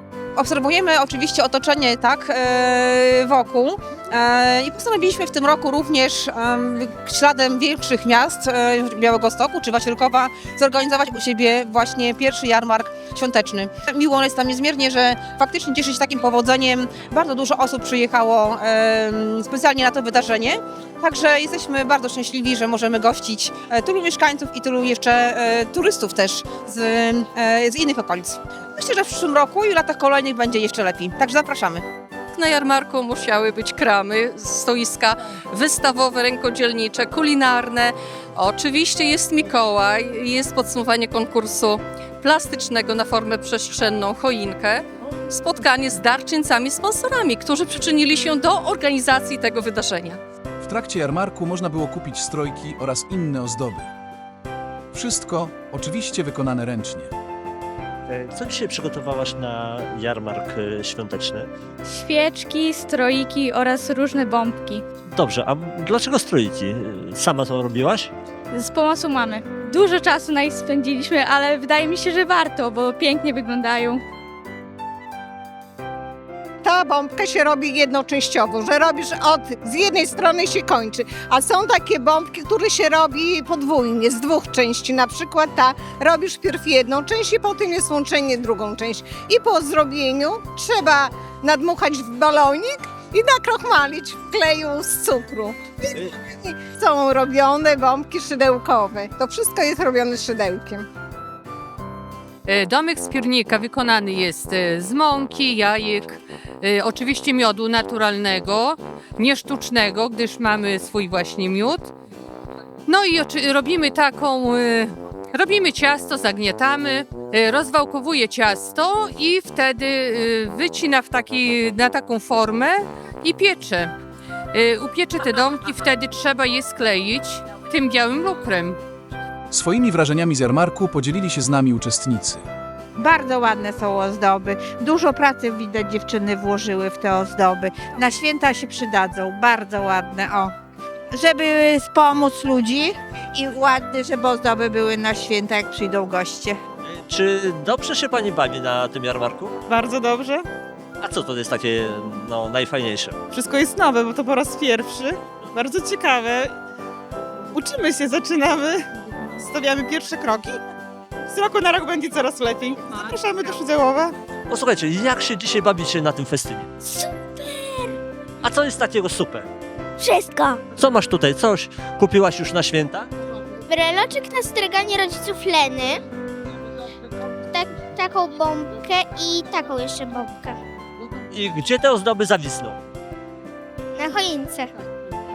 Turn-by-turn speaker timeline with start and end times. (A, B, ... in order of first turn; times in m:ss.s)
0:00.4-0:31.8 A
0:32.3-0:50.2 B
0:50.6-0:53.9 C
0:54.9-0:57.1 C
0:58.1-1:01.5 D
1:01.9-1:04.8 E
1:05.1-1:08.1 D
1:08.5-1:14.0 E
1:16.6-1:40.9 F
1:42.5-1:51.9 G
1:52.9-2:03.9 G
2:04.5-2:08.8 G
2:09.5-2:12.4 C
2:13.0-2:20.5 H
2:21.1-2:26.6 H
2:26.9-2:29.5 D
2:29.7-2:30.5 I
2:31.0-2:33.2 D
2:33.3-2:36.5 I
2:37.5-2:38.9 I
2:39.4-2:40.6 I
2:41.3-2:44.1 I
2:44.5-2:46.7 D
2:47.0-2:47.5 J
2:48.4-2:49.5 D
2:50.0-2:50.6 J
2:50.7-2:53.1 D
2:53.7-2:56.0 J
2:57.5-3:00.6 J
3:01.3-3:02.8 D
3:04.0-3:04.7 J